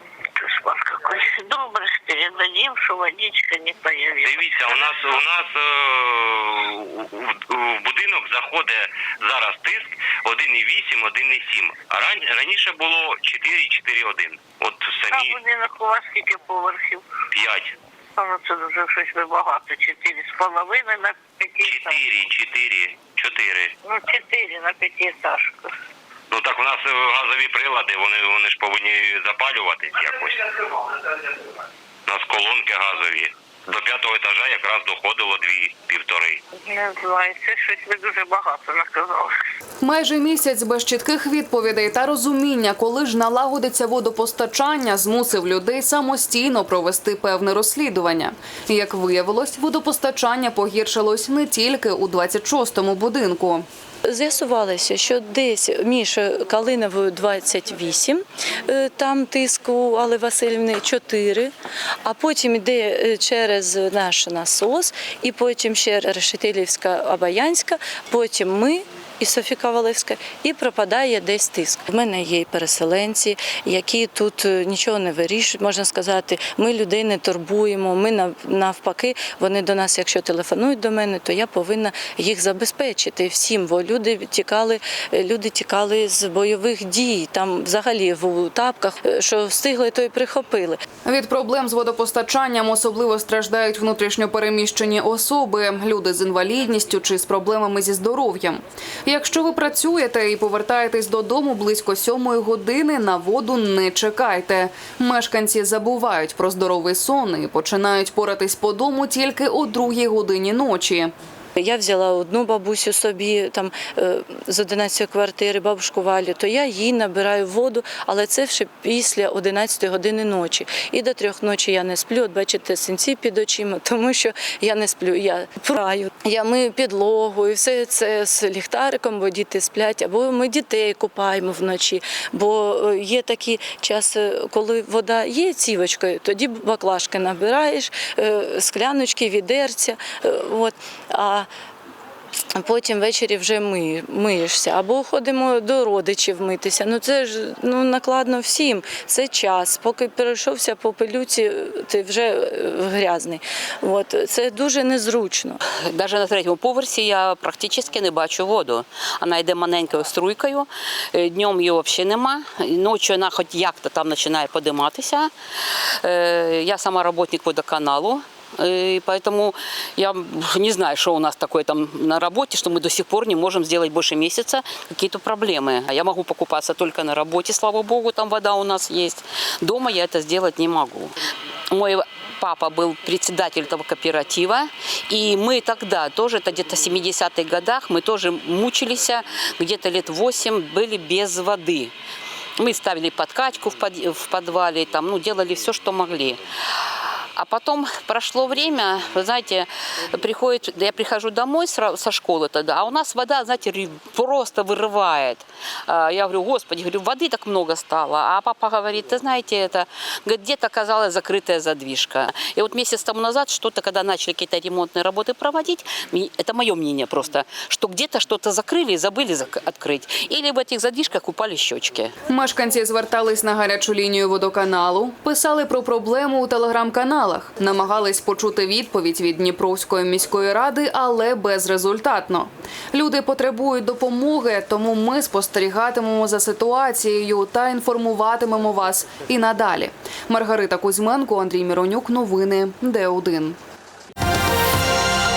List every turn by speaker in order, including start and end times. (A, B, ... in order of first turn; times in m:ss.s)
0:00.4-0:05.1 A
0:04.2-0:15.4 B
0:15.1-0:17.0 A
0:17.3-0:17.7 B
0:18.2-0:22.0 A
0:21.6-0:23.7 B
0:23.8-0:25.7 A
0:26.3-0:30.7 B
0:32.1-0:36.4 B
0:36.6-0:39.4 A
0:39.8-0:53.6 C
0:54.1-1:01.5 D
1:02.0-1:30.8 D
1:31.0-1:51.1 C
1:51.6-2:21.5 D
2:22.6-2:35.6 D
2:35.9-2:45.3 E
2:46.0-3:01.1 E
3:01.7-3:11.9 E
3:12.6-3:16.4 E
3:17.4-3:42.1 E
3:42.3-4:03.6 C